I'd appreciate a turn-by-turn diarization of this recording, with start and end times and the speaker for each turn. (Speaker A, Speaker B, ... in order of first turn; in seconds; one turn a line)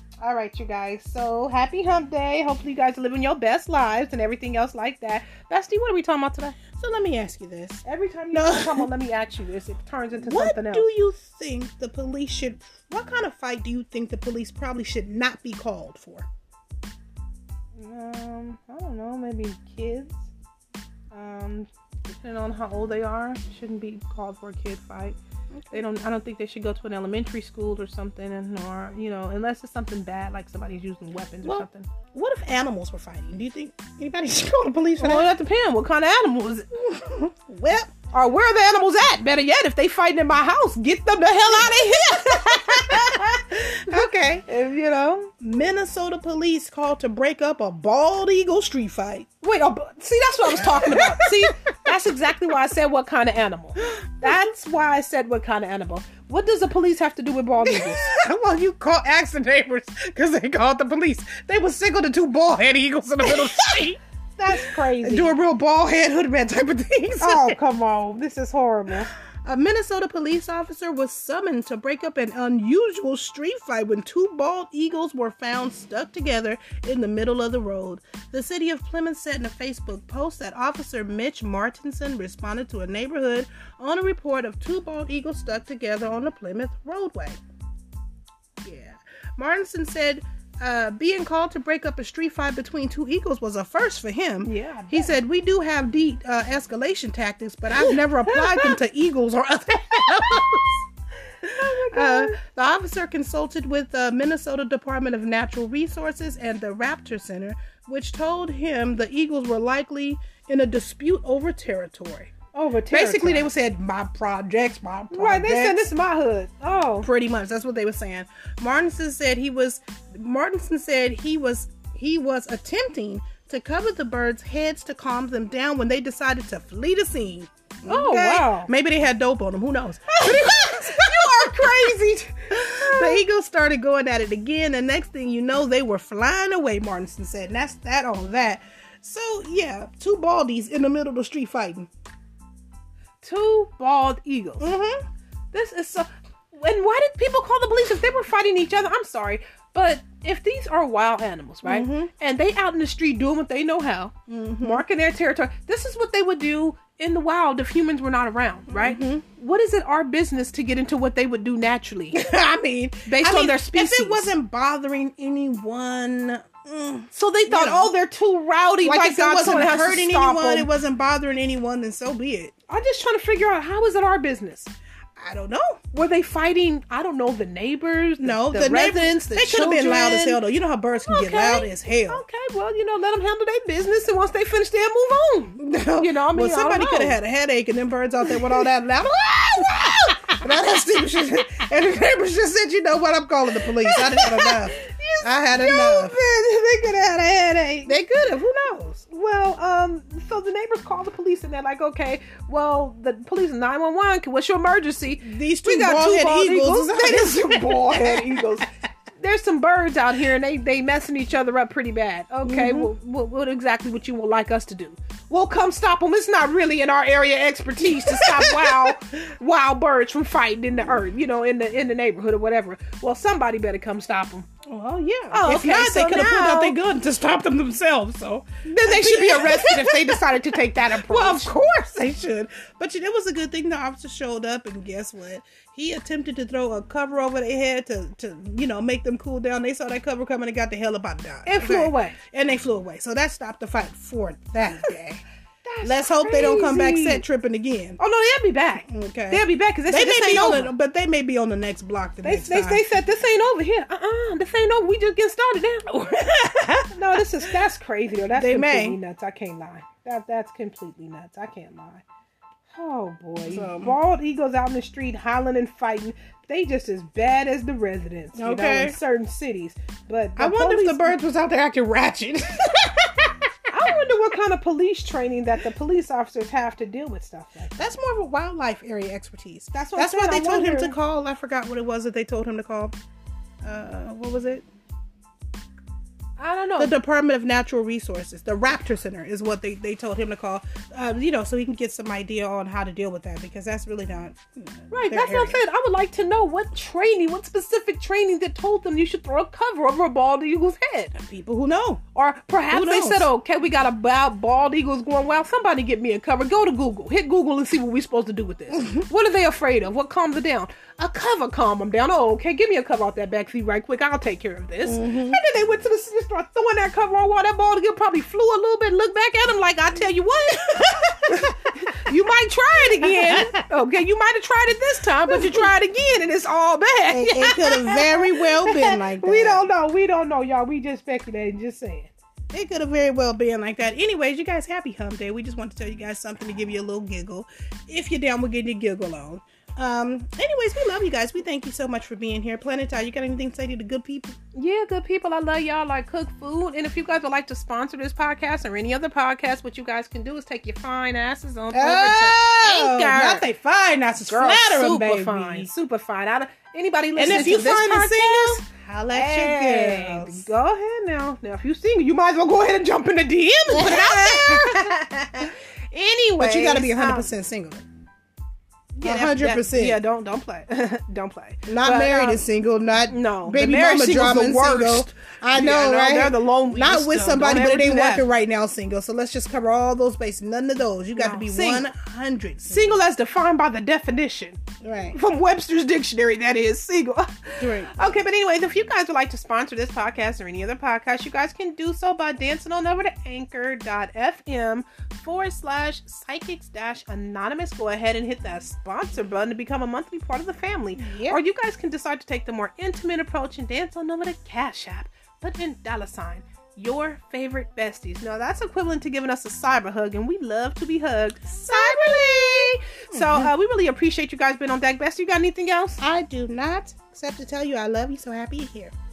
Speaker A: 0.2-6.6
Speaker B: 6.8-7.8
Speaker A: 7.8-10.9
Speaker B: 8.3-8.9
Speaker B: 10.1-16.3
Speaker A: 17.8-20.2
Speaker A: 21.1-25.2
Speaker B: 25.5-25.9
Speaker A: 25.7-31.9
Speaker B: 31.4-35.3
Speaker A: 35.0-36.7
Speaker B: 36.8-37.9
Speaker A: 38.1-45.3
Speaker B: 42.5-43.1
Speaker B: 43.9-44.5
Speaker B: 45.4-49.3
Speaker A: 49.4-58.0
Speaker B: 50.5-51.4
Speaker B: 57.6-64.0
Speaker A: 64.4-65.3
Speaker B: 64.5-67.6
Speaker A: 67.2-69.1
Speaker B: 69.4-87.4
Speaker B: 88.6-100.8
Speaker A: 94.4-95.1
Speaker A: 97.7-98.7
Speaker A: 101.4-102.4
Speaker B: 101.4-112.3
Speaker A: 112.5-113.5
Speaker B: 112.9-115.9
Speaker A: 115.1-117.1
Speaker B: 117.0-141.9
Speaker A: 127.8-128.7
Speaker A: 130.1-133.2
Speaker A: 143.2-144.7
Speaker B: 144.6-145.0
Speaker A: 145.5-162.2
Speaker B: 151.6-152.1
Speaker B: 154.3-154.8
Speaker B: 158.7-159.2
Speaker B: 162.1-167.9
Speaker A: 163.1-164.3
Speaker A: 167.1-170.7
Speaker B: 168.8-172.5
Speaker A: 172.7-174.7
Speaker B: 175.2-175.8
Speaker A: 175.9-180.4
Speaker B: 178.2-182.2
Speaker A: 180.9-187.2
Speaker B: 185.6-196.1
Speaker A: 188.2-188.6
Speaker A: 193.8-197.9
Speaker B: 197.8-199.0
Speaker A: 199.1-208.7
Speaker B: 205.2-208.6
Speaker A: 209.2-224.5
Speaker B: 212.4-212.9
Speaker B: 217.9-218.9
Speaker B: 224.7-245.2
Speaker A: 225.3-226.8
Speaker A: 228.6-231.5
Speaker A: 241.4-242.2
Speaker A: 245.6-247.2
Speaker B: 245.8-248.0
Speaker A: 248.0-250.7
Speaker B: 248.8-252.8
Speaker A: 252.2-262.0
Speaker B: 258.3-259.0
Speaker A: 262.7-271.2
Speaker B: 263.4-264.0
Speaker B: 268.3-269.0
Speaker B: 270.4-273.4
Speaker A: 273.7-277.8
Speaker B: 277.8-282.9
Speaker A: 279.7-280.9
Speaker B: 283.6-284.6
Speaker A: 286.4-286.9
Speaker B: 286.8-295.6
Speaker A: 294.9-301.1
Speaker B: 301.1-302.0
Speaker A: 302.1-332.1
Speaker B: 302.7-303.3
Speaker B: 314.8-315.4
Speaker B: 320.9-321.3
Speaker B: 323.1-323.5
Speaker B: 325.3-325.7
Speaker B: 327.1-329.7
Speaker B: 332.5-344.4
Speaker A: 344.5-353.4
Speaker B: 351.7-355.7
Speaker A: 354.2-367.3
Speaker B: 357.2-360.5
Speaker B: 363.7-364.9
Speaker B: 366.4-367.8
Speaker A: 369.0-372.4
Speaker B: 369.0-370.0
Speaker B: 371.7-383.0
Speaker A: 373.1-378.2
Speaker A: 381.1-381.9
Speaker A: 382.6-384.6
Speaker B: 384.8-385.2
Speaker A: 385.1-416.0
Speaker B: 387.6-388.2
Speaker B: 400.9-401.4
Speaker B: 411.5-413.5
Speaker B: 416.0-418.9